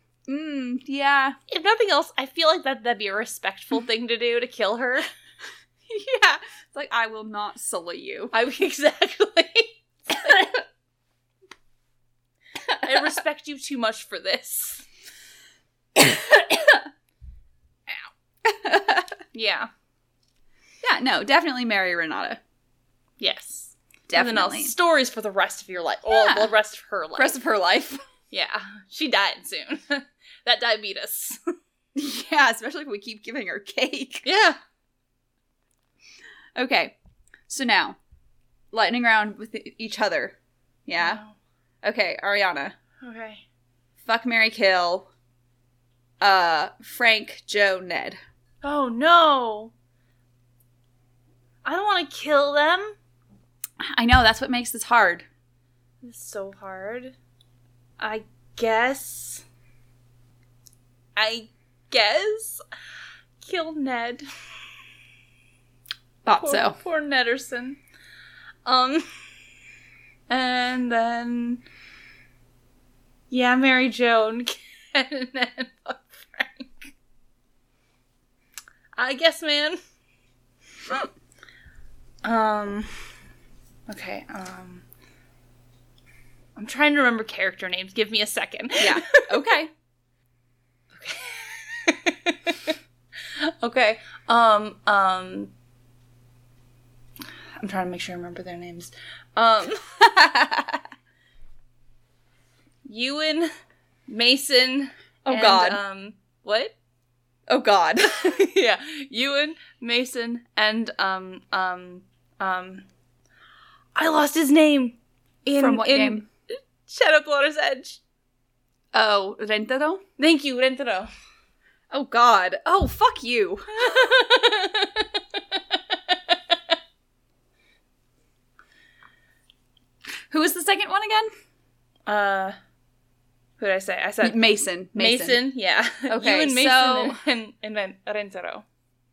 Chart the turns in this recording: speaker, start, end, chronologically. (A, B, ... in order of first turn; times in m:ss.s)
0:00.3-0:01.4 A
0:01.5-0:05.1 B
0:05.9-0:08.3 A
0:08.3-0:10.6 B
0:12.7-0:14.9 B
0:18.4-0:19.1 A
0:19.3-0:19.7 B
0:20.8-0:22.4 A
0:23.2-0:27.4 B
0:24.1-0:24.7 A
0:26.1-0:26.5 A
0:27.2-0:28.0 A
0:28.3-0:31.4 B
0:32.0-0:34.3 A
0:34.2-0:34.6 B
0:36.6-0:37.0 A
0:37.5-0:38.0 A
0:38.7-0:41.2 A
0:41.0-0:41.4 B
0:41.8-0:42.8 A
0:43.0-0:43.4 B
0:44.0-0:45.1 A
0:46.2-0:48.2 A
0:48.6-0:49.7 B
0:51.6-0:53.0 B
0:53.8-0:55.3 A
0:56.0-0:57.2 B
0:58.0-0:59.4 B
1:01.2-1:02.6 B
1:03.4-1:04.3 B
1:06.2-1:06.8 A
1:06.4-1:07.8 B
1:08.6-1:09.1 B
1:10.3-1:11.6 B
1:13.3-1:16.9 B
1:19.0-1:19.8 B
1:22.2-1:22.9 B
1:23.9-1:24.8 B
1:26.6-1:29.3 B
1:28.8-1:29.7 A
1:30.9-1:32.8 B
1:33.4-1:35.5 B
1:37.6-1:39.8 B
1:40.0-1:40.8 A
1:42.9-1:43.5 B
1:44.1-1:46.8 B
1:45.2-1:45.8 A
1:47.5-1:48.4 A
1:48.1-1:52.9 B
1:54.0-1:56.3 B
1:55.6-1:56.3 A
1:56.9-1:58.0 B
1:58.9-2:00.0 A
2:00.2-2:01.1 B
2:01.9-2:04.2 A
2:03.7-2:06.6 B
2:10.3-2:11.3 A
2:12.1-2:12.6 B
2:13.6-2:18.6 B
2:14.2-2:15.4 A
2:16.1-2:17.2 A